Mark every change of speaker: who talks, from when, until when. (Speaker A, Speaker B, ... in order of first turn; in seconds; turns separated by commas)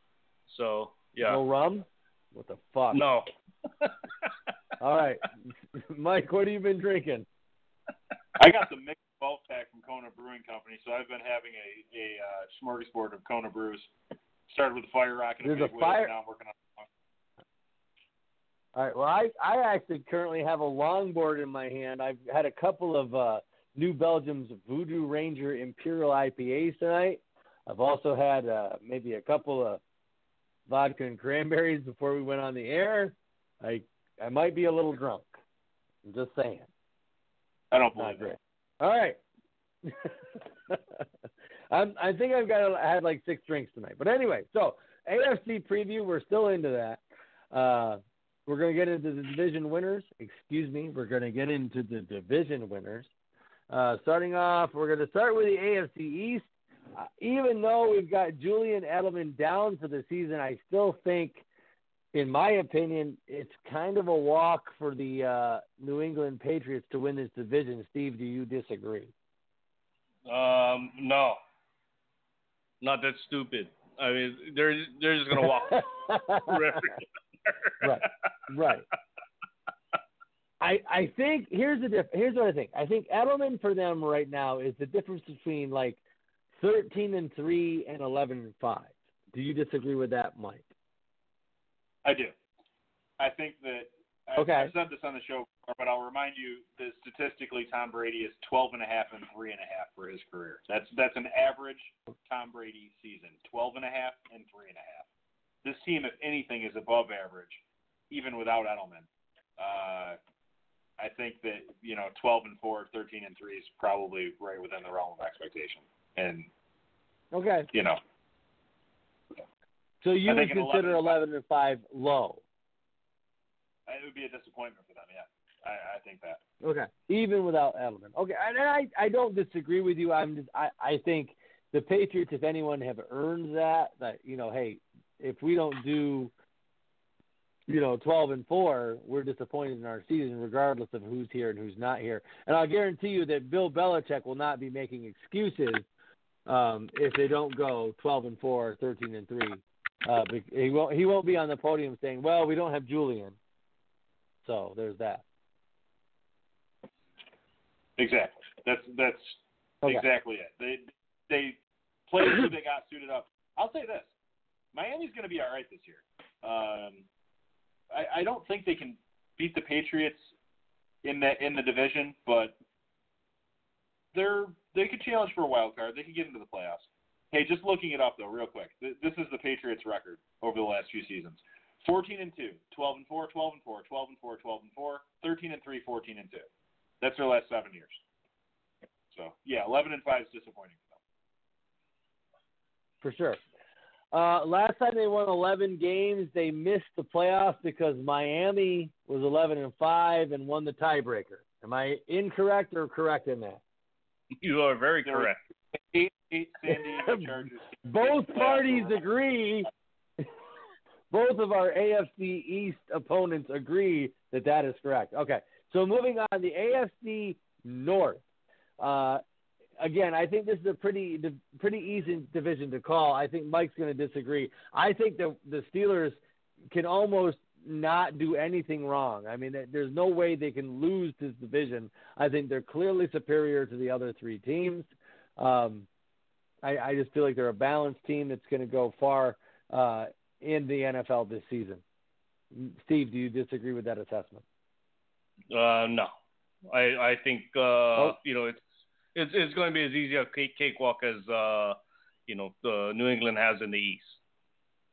Speaker A: 0.5-1.4, Speaker B: 1.2-3.1, Speaker A: 2.9-3.3, Speaker A: 3.8-4.3, Speaker B: 4.8-7.3, Speaker C: 8.4-13.9, Speaker C: 14.5-16.9, Speaker B: 15.4-16.1, Speaker B: 18.7-29.8, Speaker B: 30.7-35.3, Speaker B: 36.0-36.7, Speaker C: 37.7-38.4, Speaker B: 38.0-39.2, Speaker B: 39.8-41.0, Speaker B: 41.7-53.1, Speaker B: 53.7-61.4, Speaker B: 62.1-69.1, Speaker A: 70.2-71.4, Speaker A: 72.8-78.1, Speaker B: 75.3-76.9, Speaker B: 77.8-78.8, Speaker B: 80.6-86.0, Speaker B: 86.5-90.7, Speaker C: 92.0-92.3, Speaker C: 93.2-105.1, Speaker B: 94.4-94.7, Speaker C: 105.6-109.1, Speaker C: 109.6-110.2, Speaker C: 111.0-116.5, Speaker B: 117.3-117.7, Speaker C: 117.7-118.0, Speaker B: 120.0-122.4, Speaker C: 120.2-121.2, Speaker C: 123.9-126.4, Speaker B: 126.6-136.3, Speaker B: 137.7-145.9, Speaker B: 146.4-153.4, Speaker B: 154.4-155.2, Speaker C: 158.0-161.6, Speaker C: 162.1-164.1, Speaker C: 164.7-167.0, Speaker C: 167.9-170.3, Speaker C: 171.0-172.6, Speaker C: 174.1-186.5, Speaker C: 187.0-188.0, Speaker C: 189.1-191.0, Speaker B: 193.0-193.4, Speaker B: 194.1-203.6, Speaker A: 204.4-205.4, Speaker C: 205.1-209.0, Speaker B: 206.7-209.7, Speaker B: 211.1-218.2, Speaker B: 218.8-219.2, Speaker B: 219.8-235.9, Speaker B: 236.6-241.8, Speaker B: 242.5-244.4, Speaker A: 245.5-246.1, Speaker A: 246.7-251.8, Speaker A: 252.3-254.2